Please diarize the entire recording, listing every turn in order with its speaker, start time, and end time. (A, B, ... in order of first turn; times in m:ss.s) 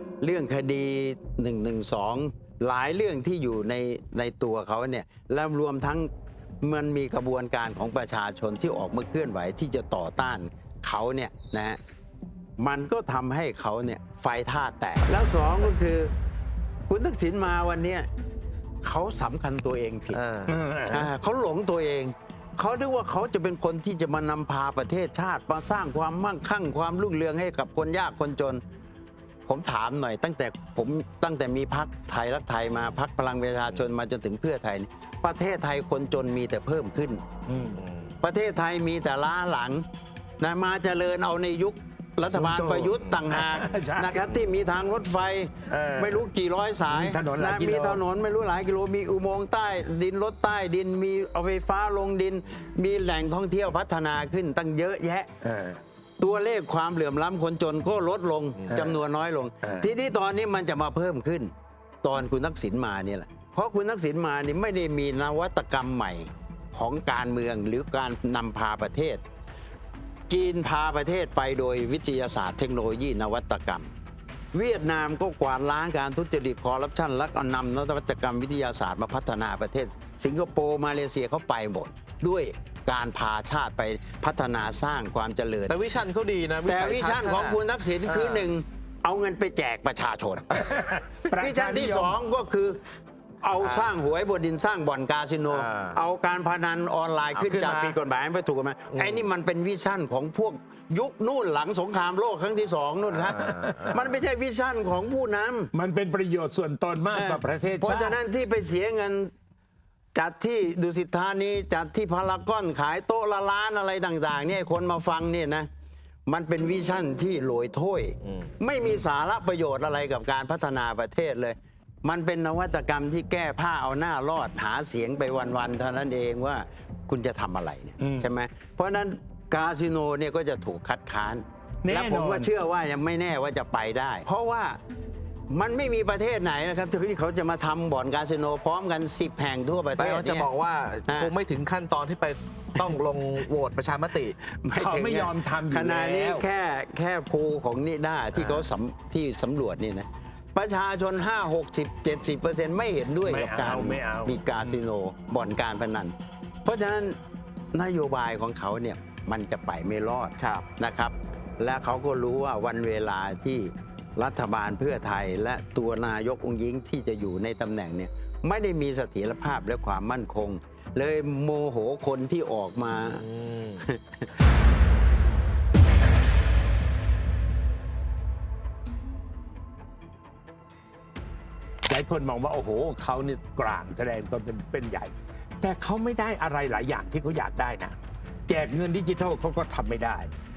0:00.2-0:06.1 A
0:06.6-0:11.8 A
0:12.6-0:16.1 A
0:16.9-0:18.1 A
0:18.8-0:20.2 A
0:20.1-0:20.5 B
0:20.5-0:21.1 C
0:20.9-0:28.6 A
0:29.5-0:37.2 A
0:37.5-0:37.8 C
0:37.8-0:38.2 B
0:38.2-0:39.8 A
0:40.4-0:55.3 A
0:42.3-0:44.3 C
0:45.7-0:46.2 C
0:46.9-0:48.0 C
0:55.4-0:55.8 C
0:56.2-1:01.5 A
1:02.0-1:09.2 A
1:10.3-1:13.9 A
1:14.5-1:25.8 A
1:25.7-1:28.5 B
1:26.6-1:30.7 A
1:30.5-1:32.2 C
1:31.3-1:32.8 A
1:33.4-1:45.7 A
1:33.6-1:33.9 B
1:35.5-1:36.0 B
1:37.4-1:38.0 B
1:38.9-1:39.2 B
1:43.1-1:44.0 B
1:43.4-1:44.0 C
1:45.7-1:48.2 C
1:47.1-1:49.3 A
1:50.2-1:55.7 A
1:56.3-2:14.8 A
2:08.0-2:08.3 C
2:11.8-2:12.5 C
2:15.5-2:20.5 A
2:20.0-2:24.4 B
2:21.1-2:21.3 A
2:24.4-2:36.1 A
2:24.8-2:26.4 C
2:28.4-2:28.6 B
2:33.2-2:34.8 C
2:36.6-2:37.2 A
2:37.7-2:53.3 A
2:40.4-2:40.7 B
2:53.2-2:53.8 B
2:53.8-2:54.3 A
3:01.9-3:10.3 C